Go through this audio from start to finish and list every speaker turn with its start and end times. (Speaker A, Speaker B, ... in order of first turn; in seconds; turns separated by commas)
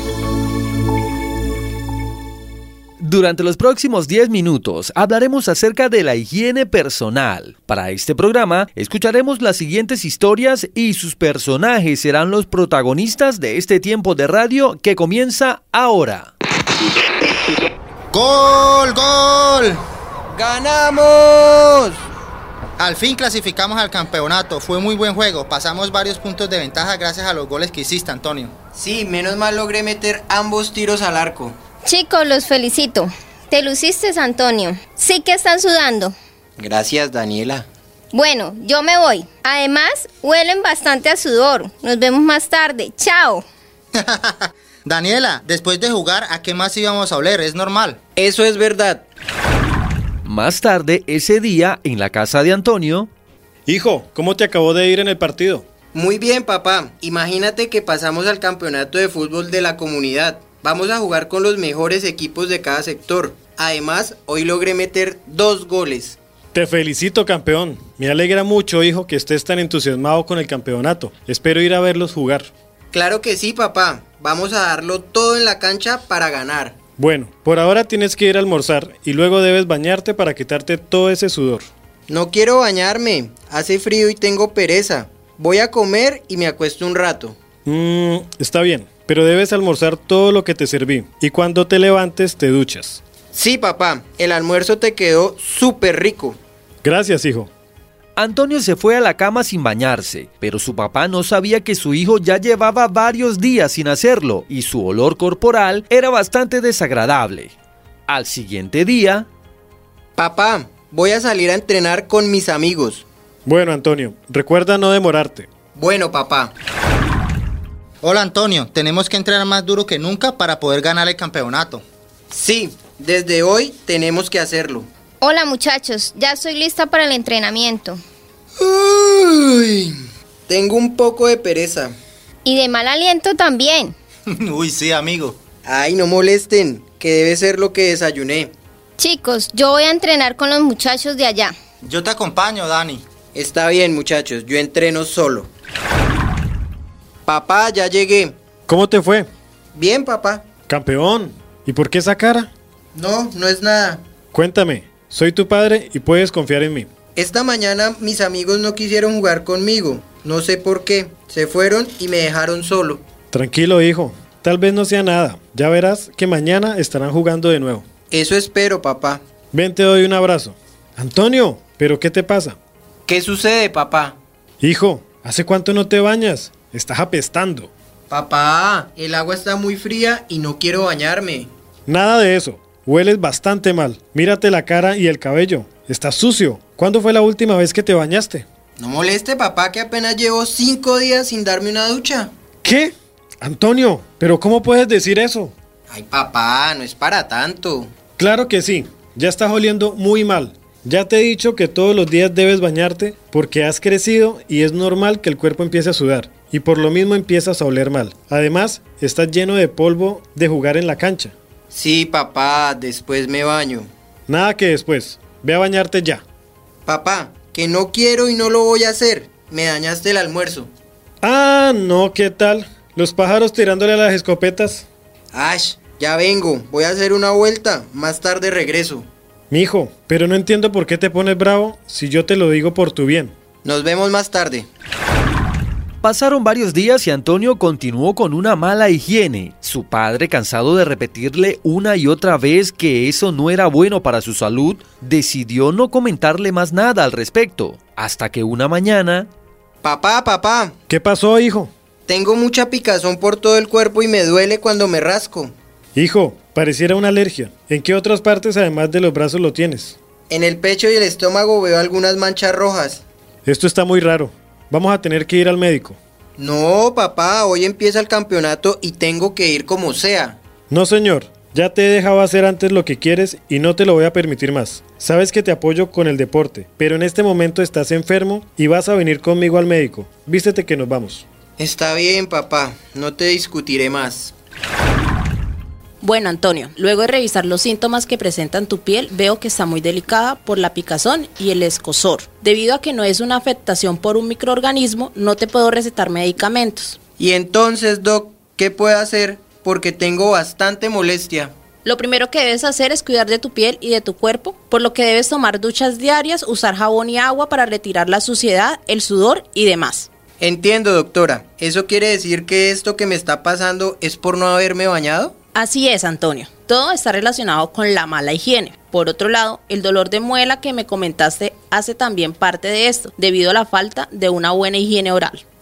Speaker A: 3.0-16.3, Speaker B: 18.1-19.8, Speaker C: 20.3-21.9, Speaker B: 22.8-28.5, Speaker C: 28.8-31.5, Speaker D: 31.8-36.1, Speaker C: 36.6-37.6, Speaker D: 38.1-43.5, Speaker B: 43.9-48.0, Speaker C: 48.2-49.0, Speaker A: 50.2-53.1, Speaker E: 53.7-55.6, Speaker C: 55.9-66.2, Speaker E: 66.5-72.5, Speaker C: 72.9-76.8, Speaker E: 77.0-81.7, Speaker C: 82.1-87.3, Speaker E: 87.7-93.0, Speaker C: 93.3-96.4, Speaker E: 96.8-97.5, Speaker A: 98.2-107.5, Speaker A: 108.1-109.3, Speaker C: 110.2-113.0, Speaker E: 113.5-115.5, Speaker C: 115.8-116.5, Speaker B: 118.0-121.8, Speaker C: 122.3-124.9, Speaker D: 125.2-128.0, Speaker C: 128.6-129.9, Speaker C: 130.5-131.9, Speaker D: 132.4-133.9, Speaker B: 134.3-135.4, Speaker C: 135.6-138.5, Speaker D: 139.0-141.6, Speaker B: 141.8-143.0, Speaker C: 143.3-145.5, Speaker C: 147.3-148.3, Speaker E: 148.7-149.3, Speaker C: 149.7-150.4, Speaker E: 150.7-152.5, Speaker C: 152.9-154.0, Speaker E: 154.3-156.9, Speaker C: 157.2-163.0, Speaker E: 163.3-167.8, Speaker C: 168.1-169.2, Speaker E: 169.5-172.6, Speaker C: 173.1-174.2, Speaker E: 174.6-177.7, Speaker C: 178.1-181.5, Speaker E: 181.9-188.4, Speaker C: 188.8-192.3, Speaker E: 192.6-195.5, Speaker C: 195.9-197.9, Speaker E: 198.2-211.3, Speaker C: 211.7-213.9, Speaker E: 214.3-216.2, Speaker C: 216.8-220.7, Speaker E: 221.2-224.8, Speaker C: 225.3-229.1, Speaker E: 229.5-233.3, Speaker C: 233.7-234.7, Speaker A: 236.0-249.3, Speaker C: 249.8-250.7, Speaker E: 250.9-251.7, Speaker C: 252.1-255.5, Speaker E: 255.9-260.0, Speaker C: 260.3-263.0, Speaker E: 263.4-266.0, Speaker C: 266.4-270.4, Speaker E: 270.7-281.2, Speaker C: 281.6-284.3, Speaker F: 286.0-297.0, Speaker C: 297.2-301.5, Speaker F: 301.9-310.1, Speaker C: 310.4-315.3, Speaker F: 315.5-325.4